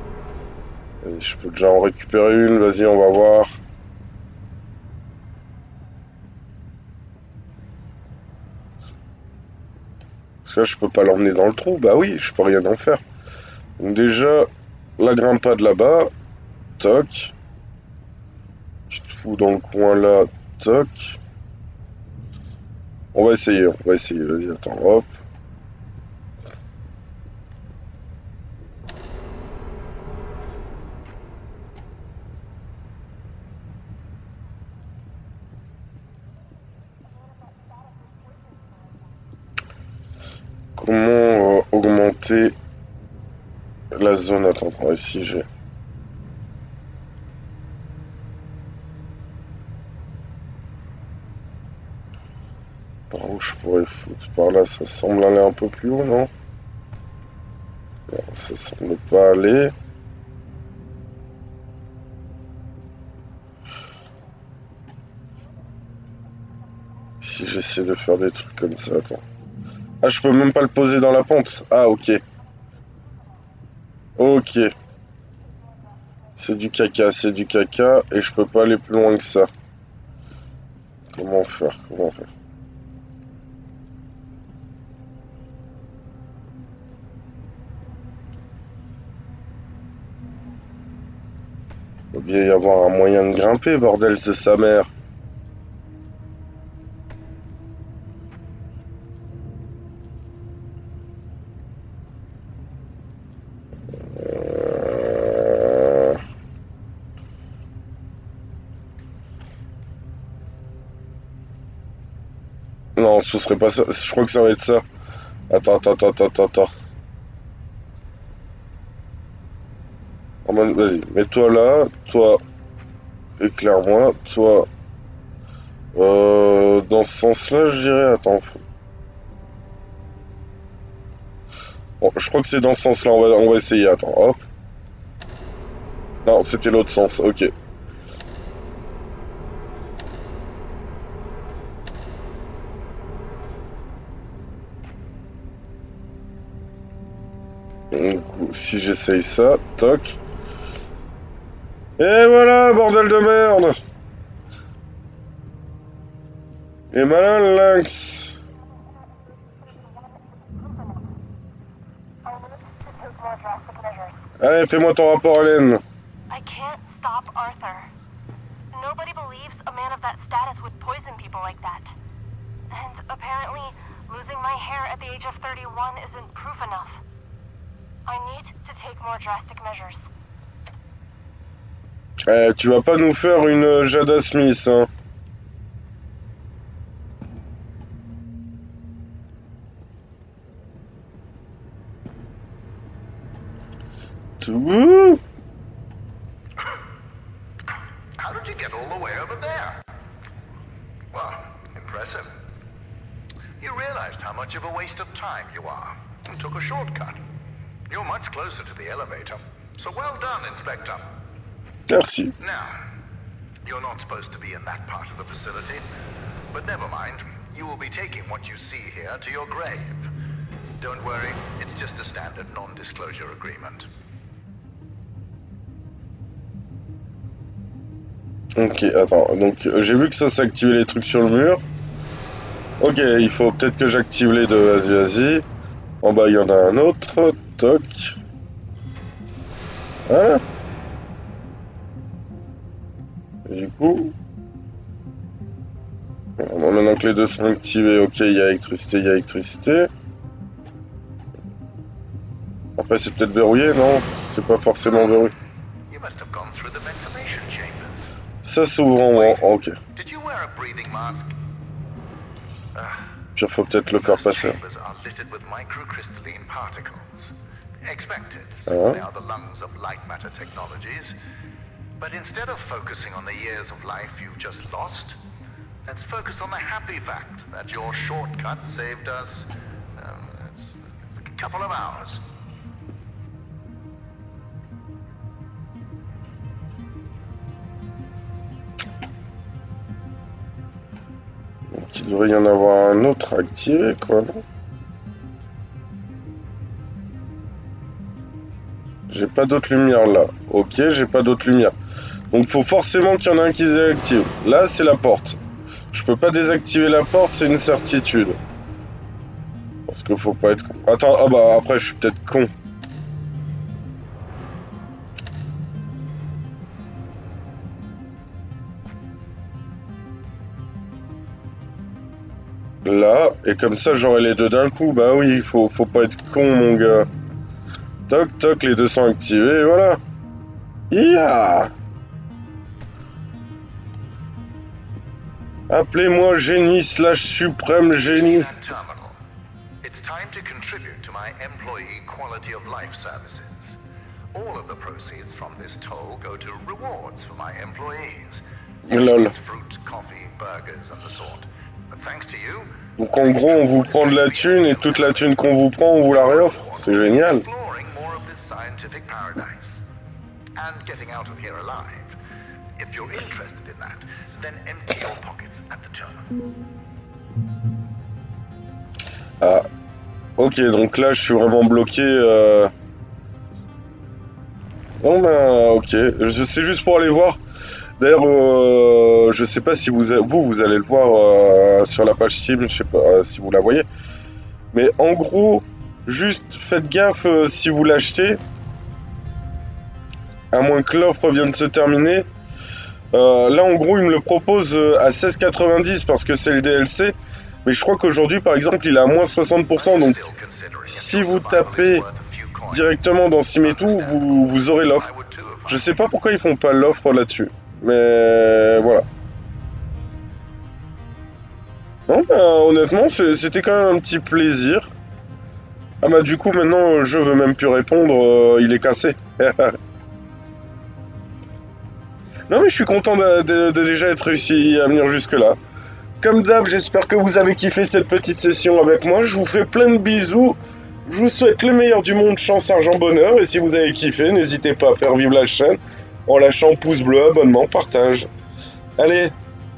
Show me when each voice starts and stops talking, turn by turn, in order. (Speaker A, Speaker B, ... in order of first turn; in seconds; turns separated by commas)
Speaker A: 1.0-3.6, Speaker A: 10.4-13.0, Speaker A: 13.8-16.1, Speaker A: 16.8-17.3, Speaker A: 18.9-21.2, Speaker A: 23.1-25.1, Speaker A: 40.8-42.5, Speaker A: 43.9-45.5, Speaker A: 53.1-56.3, Speaker A: 58.1-59.7, Speaker A: 67.2-69.2, Speaker A: 70.0-72.2, Speaker A: 74.2-74.7, Speaker A: 76.4-79.5, Speaker A: 81.1-82.3, Speaker A: 92.1-94.9, Speaker A: 104.2-106.2, Speaker A: 113.0-114.8, Speaker A: 115.5-116.7, Speaker A: 120.5-122.4, Speaker A: 123.4-124.7, Speaker A: 125.9-128.6, Speaker A: 132.0-134.4, Speaker A: 136.2-137.5, Speaker A: 147.9-150.2, Speaker A: 152.0-153.8, Speaker A: 156.9-158.4, Speaker B: 162.3-164.2, Speaker A: 164.4-165.8, Speaker B: 166.3-167.9, Speaker B: 168.7-171.9, Speaker B: 172.7-177.0, Speaker B: 178.1-180.1, Speaker A: 182.3-184.9, Speaker A: 194.4-195.2, Speaker C: 198.2-199.8, Speaker C: 201.1-202.3, Speaker C: 203.6-207.2, Speaker C: 207.9-211.1, Speaker A: 211.9-212.3, Speaker C: 212.4-212.8, Speaker C: 213.7-215.8, Speaker C: 216.5-220.1, Speaker C: 220.8-223.9, Speaker A: 228.6-231.6, Speaker A: 232.8-235.5, Speaker A: 236.0-238.2, Speaker A: 240.1-240.4, Speaker A: 243.5-244.2, Speaker A: 246.4-249.9, Speaker A: 252.8-255.3, Speaker C: 255.9-258.1, Speaker A: 258.4-259.8, Speaker C: 259.1-261.3, Speaker A: 263.4-264.6, Speaker C: 264.0-271.2, Speaker A: 268.7-269.0, Speaker C: 272.0-275.2, Speaker C: 275.9-282.2, Speaker A: 291.7-294.4, Speaker A: 299.1-301.7, Speaker A: 302.3-305.4, Speaker A: 305.9-308.4, Speaker A: 309.9-312.5, Speaker A: 322.9-327.1, Speaker A: 328.1-330.0, Speaker A: 330.9-331.7, Speaker A: 335.7-338.5, Speaker C: 337.9-339.2, Speaker C: 339.8-343.8, Speaker C: 344.3-355.4, Speaker A: 348.9-349.3, Speaker A: 353.0-357.5, Speaker C: 356.0-359.9, Speaker C: 360.6-362.2, Speaker C: 362.8-366.3, Speaker A: 370.4-372.7, Speaker A: 375.0-377.4, Speaker A: 378.0-383.9, Speaker A: 384.7-388.4, Speaker A: 390.5-392.3, Speaker A: 393.1-400.2, Speaker C: 399.7-403.0, Speaker A: 400.9-402.0, Speaker A: 402.7-405.1, Speaker C: 403.6-406.0, Speaker A: 405.7-409.1, Speaker A: 412.1-414.9, Speaker A: 416.0-419.8, Speaker A: 422.5-425.6, Speaker A: 426.2-438.3, Speaker A: 439.0-439.3